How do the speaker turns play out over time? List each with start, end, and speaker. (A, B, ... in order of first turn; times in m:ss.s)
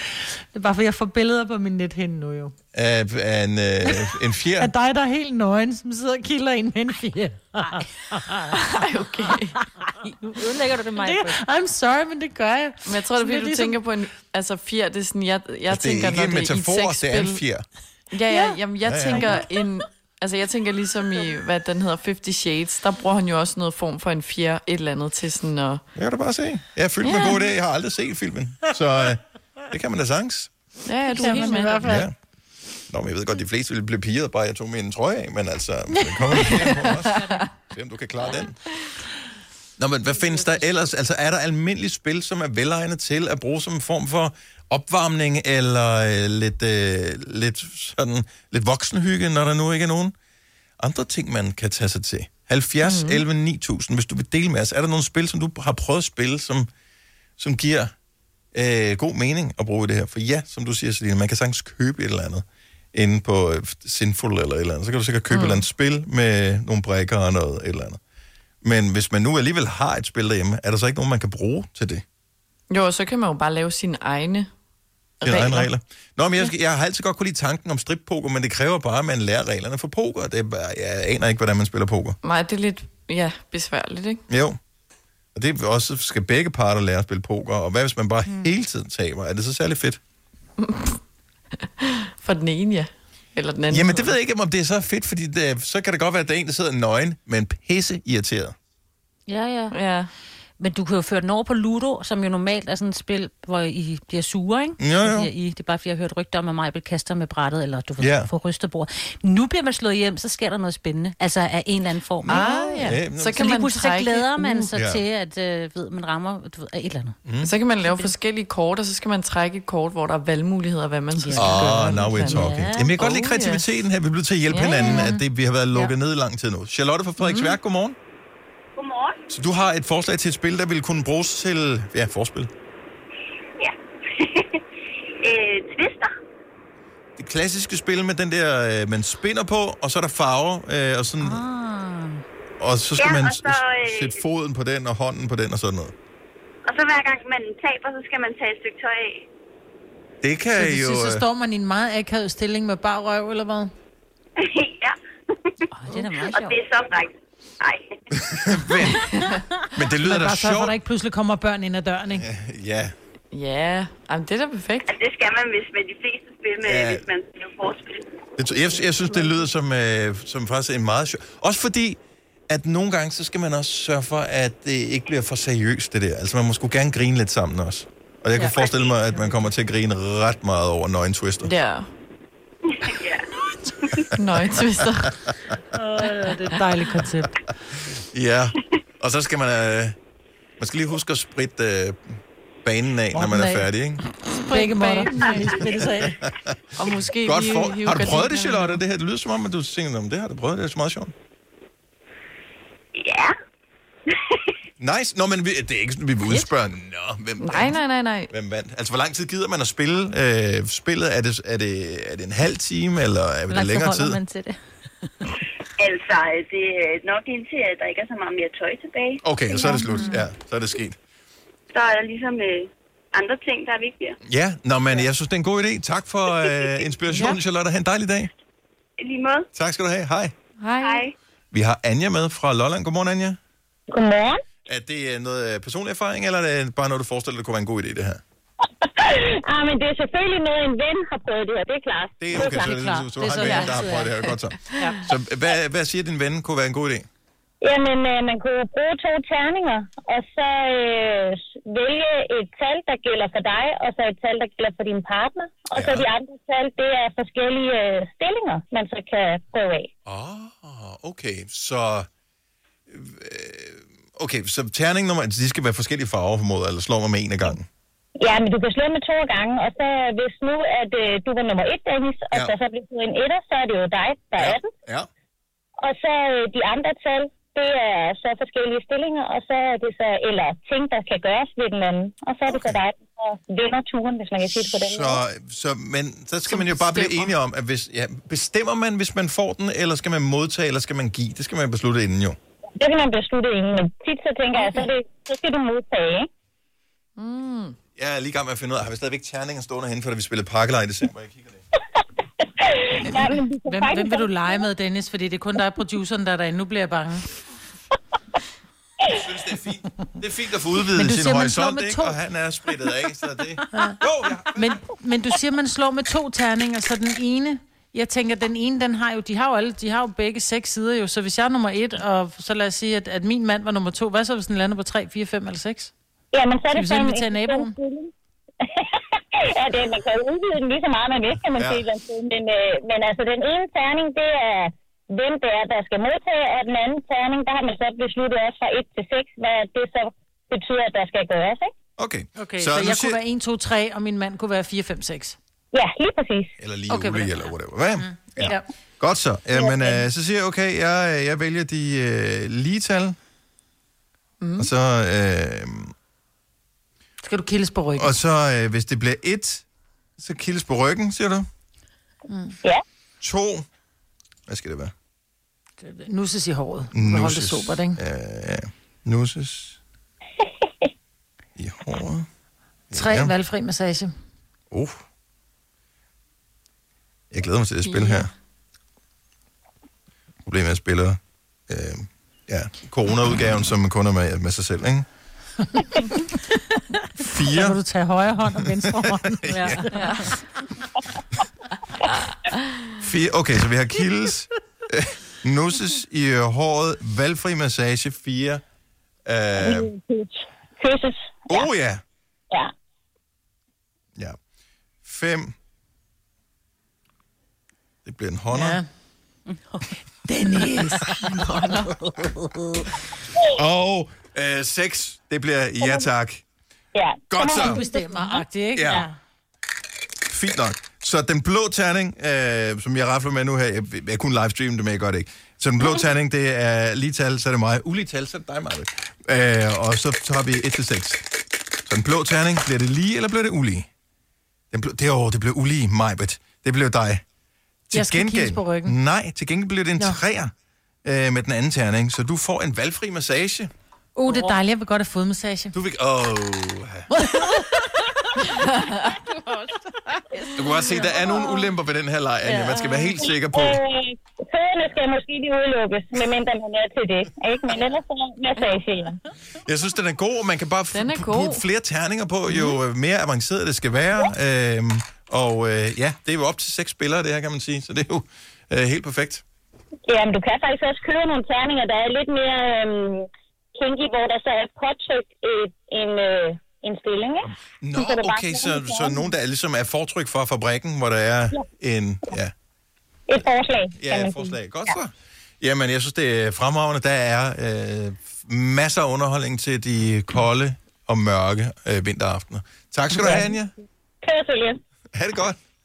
0:00.5-0:02.5 A
0:02.7-0:04.7 B
0:03.8-0:08.6 A
0:08.6-0:09.5 C
0:10.0-0:11.4 D
0:11.0-0:13.8 A
0:12.8-0:17.4 C
0:15.7-0:17.6 B
0:18.1-0:25.8 C
0:18.3-0:18.6 D
0:18.8-0:19.3 B
0:25.9-0:30.5 B
0:27.0-0:27.4 C
0:30.8-0:31.9 C
0:31.2-0:32.0 A
0:31.3-0:31.6 D
0:31.8-0:32.1 B
0:32.9-0:38.6 B
0:35.9-0:36.7 A
0:36.4-0:37.4 C
0:39.8-0:50.1 B
0:50.8-0:56.7 B
0:52.8-0:53.2 C
0:57.4-0:57.9 B
0:58.5-1:08.0 B
1:05.3-1:05.6 C
1:08.6-1:12.0 B
1:12.7-1:14.5 C
1:15.2-1:15.7 C
1:15.2-1:22.2 B
1:22.2-1:24.2 C
1:24.3-1:24.6 B
1:25.3-1:30.0 B
1:30.6-1:31.0 C
1:31.8-1:34.1 C
1:33.7-1:38.5 B
1:39.3-1:39.7 D
1:39.7-1:40.1 C
1:40.6-1:52.5 D
1:44.8-1:45.3 B
1:48.0-1:48.3 B
1:52.2-1:53.5 B
1:52.2-1:54.7 C
1:53.3-1:58.1 D
1:54.7-1:55.0 B
1:57.2-1:57.5 B
1:57.4-2:03.6 C
2:01.2-2:01.6 D
2:01.3-2:08.0 B
2:02.2-2:03.0 D
2:04.5-2:05.1 C
2:04.8-2:05.2 D
2:07.2-2:07.6 C
2:08.8-2:09.2 E
2:09.3-2:12.5 B
2:13.6-2:14.6 E
2:15.2-2:16.1 E
2:17.2-2:21.4 B
2:21.2-2:22.2 D
2:22.6-2:25.9 B
2:23.0-2:24.2 E
2:26.6-2:29.2 E
2:30.2-2:31.2 B
2:30.5-2:33.7 A
2:34.4-2:35.0 E
2:35.7-2:36.6 D
2:36.2-2:37.8 E
2:38.2-2:39.0 B
2:39.7-2:40.8 B
2:40.0-2:42.2 A
2:42.1-2:42.9 B
2:43.3-2:45.0 C
2:44.9-2:48.0 E
2:46.6-2:47.1 B
2:48.4-3:01.5 B
3:01.4-3:01.9 C
3:02.9-3:03.2 E
3:04.1-3:05.1 C
3:05.7-3:07.4 A
3:08.0-3:10.0 B
3:10.6-3:14.0 B
3:13.1-3:13.7 A
3:14.3-3:15.8 C
3:14.5-3:16.2 A
3:16.8-3:18.8 C
3:17.2-3:21.1 B
3:23.0-3:23.3 E
3:24.1-3:24.4 E
3:24.8-3:27.8 B
3:27.4-3:28.3 C
3:28.3-3:34.2 B
3:33.5-3:35.1 D
3:35.8-3:39.2 E
3:39.2-3:41.0 B
3:39.6-3:40.2 D
3:41.7-3:44.2 E
3:44.2-3:48.3 B
3:47.1-3:47.4 C
3:49.0-3:49.5 E
3:49.6-3:50.3 B
3:50.6-3:51.1 C
3:50.8-3:51.1 E
3:51.5-3:53.4 B
3:53.9-3:54.4 F
3:54.7-3:58.2 B
3:58.8-4:02.8 F
4:02.2-4:07.0 B
4:02.6-4:03.6 A
4:02.8-4:04.2 D
4:07.6-4:19.9 F
4:15.7-4:16.1 B
4:20.0-4:22.1 B
4:22.9-4:27.6 B
4:28.2-4:34.7 F
4:34.4-4:35.1 B
4:35.8-4:45.2 F
4:42.4-4:42.8 B
4:44.4-4:52.4 B
4:46.5-4:47.3 C
4:52.8-4:56.3 F
4:54.5-4:54.9 C
4:57.2-4:57.8 C
4:58.0-5:01.6 B
5:02.0-5:04.6 F
5:03.6-5:07.3 A
5:09.1-5:14.8 B
5:10.9-5:12.2 A
5:13.7-5:14.0 A
5:14.5-5:25.9 A
5:26.3-5:28.1 F
5:26.7-5:27.7 A
5:28.6-5:41.7 F
5:31.5-5:31.8 B
5:42.0-5:43.2 B
5:42.4-5:45.4 A
5:45.7-5:46.5 F
5:46.6-5:53.2 B
5:46.9-5:48.6 A
5:54.4-5:54.7 C
5:54.6-5:55.9 B
5:57.2-5:58.1 A
5:57.9-5:59.6 B
6:00.2-6:01.4 B
6:02.3-6:02.6 A
6:03.2-6:03.6 B
6:04.5-6:04.9 B
6:05.8-6:08.0 A
6:06.9-6:09.8 B
6:11.6-6:12.2 B
6:12.9-6:13.3 B
6:12.9-6:14.1 A
6:14.7-6:15.0 B
6:17.3-6:18.3 B
6:17.8-6:18.2 C
6:20.4-6:21.2 B
6:21.7-6:25.1 B
6:25.8-6:26.2 A
6:27.2-6:27.8 B
6:27.5-6:30.0 A
6:29.4-6:29.8 B
6:29.5-6:30.3 D
6:30.0-6:30.2 C
6:33.0-6:38.6 B
6:39.2-6:39.9 B
6:39.6-6:41.7 F
6:41.5-6:42.0 B
6:45.0-6:45.5 B
6:48.0-6:48.8 B
6:48.5-6:48.8 A
6:49.5-6:49.9 D
6:50.2-6:51.1 A
6:50.7-6:51.9 C
6:50.7-6:52.8 D
6:53.5-6:56.4 B
6:56.9-6:58.0 F
6:57.3-6:57.8 B
6:57.5-6:59.1 A
6:58.0-6:59.1 D
6:58.7-6:59.0 B
7:00.2-7:11.3 B
7:11.8-7:13.9 B
7:14.7-7:17.2 B
7:17.9-7:20.5 B
7:17.9-7:19.0 A
7:21.0-7:23.7 B
7:24.1-7:25.7 A
7:24.2-7:24.6 F
7:25.7-7:27.1 B
7:27.1-7:27.6 A
7:30.3-7:31.1 C
7:30.6-7:33.8 B
7:32.4-7:33.1 D
7:33.5-7:39.2 F
7:39.6-7:49.4 B
7:40.9-7:41.6 C
7:50.1-7:59.3 F
7:57.8-8:02.5 B
8:03.3-8:04.9 F
8:04.0-8:13.7 B
8:13.2-8:13.5 F
8:14.2-8:14.8 F
8:15.1-8:15.6 B